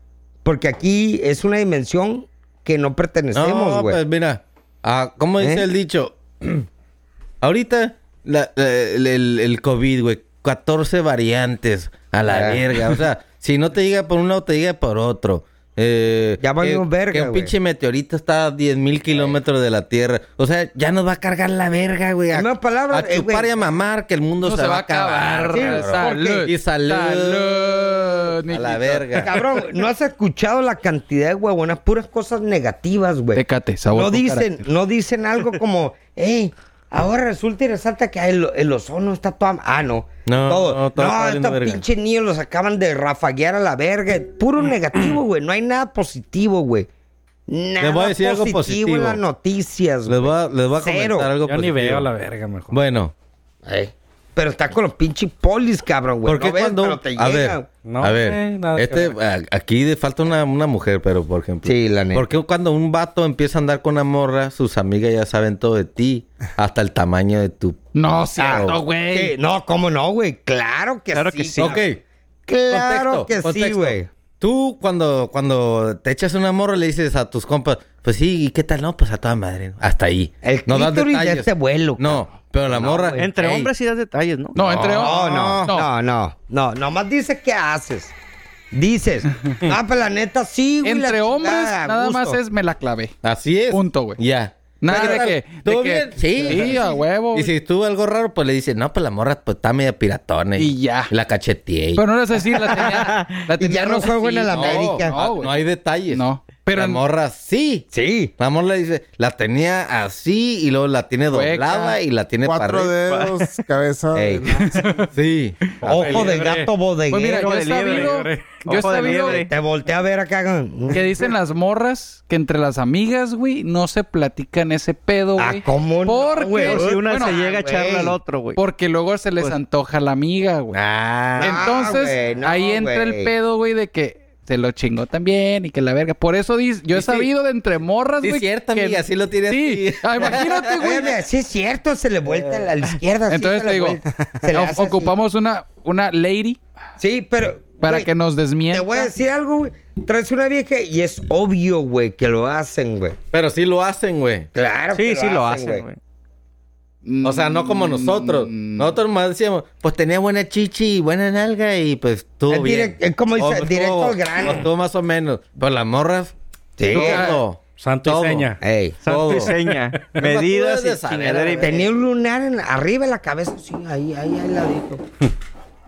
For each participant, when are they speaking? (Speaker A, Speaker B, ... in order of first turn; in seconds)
Speaker A: 0.4-4.0, 5.4-5.6, 12.2-12.6, 16.4-17.5, 22.3-23.5, 25.5-26.5, 29.2-46.9, 47.5-51.3, 53.6-57.7, 61.6-62.2, 68.4-71.8, 72.5-74.1, 80.4-83.3, 84.9-88.1, 88.7-92.4, 94.9-95.3, 96.3-97.0, 103.6-105.1, 107.9-108.3, 114.1-114.5, 115.8-117.5, 119.5-121.0, 125.4-128.2, 131.4-133.3, 140.8-145.1, 147.0-148.1, 148.7-153.2, 154.5-155.8, 162.5-164.7, 166.8-167.2, 168.6-169.3, 171.6-175.0
Speaker B: 3.3-6.7, 7.4-29.4, 40.2-41.8, 47.8-49.2, 50.1-52.1, 52.7-53.1, 56.2-67.8, 68.4-68.8, 71.6-72.0, 72.7-83.7, 84.6-85.7, 93.2-102.0, 104.5-112.9, 115.1-116.1, 130.7-131.6, 136.9-137.3, 138.2-141.1, 142.2-142.7, 153.3-154.5, 157.2-168.5, 169.1-169.6, 170.1-171.9
Speaker C: 24.4-29.3, 33.3-34.7, 67.9-69.3, 84.5-85.9, 90.8-93.1, 93.7-94.2, 94.8-97.5, 100.6-101.1, 101.9-105.5, 106.1-107.0, 111.3-112.0, 114.6-115.0, 117.1-119.5, 120.9-127.4, 128.6-130.8, 131.4-141.1, 143.3-146.6, 147.8-149.1, 157.0-158.9, 167.0-167.4
Speaker D: 51.4-52.8, 57.8-59.1, 115.8-116.7, 117.7-119.4, 167.0-168.6
Speaker E: 71.1-71.8, 83.2-84.7, 103.1-103.4, 113.1-113.4, 117.3-119.5, 126.6-128.6, 154.9-156.0, 169.0-171.8
Speaker F: 112.4-114.9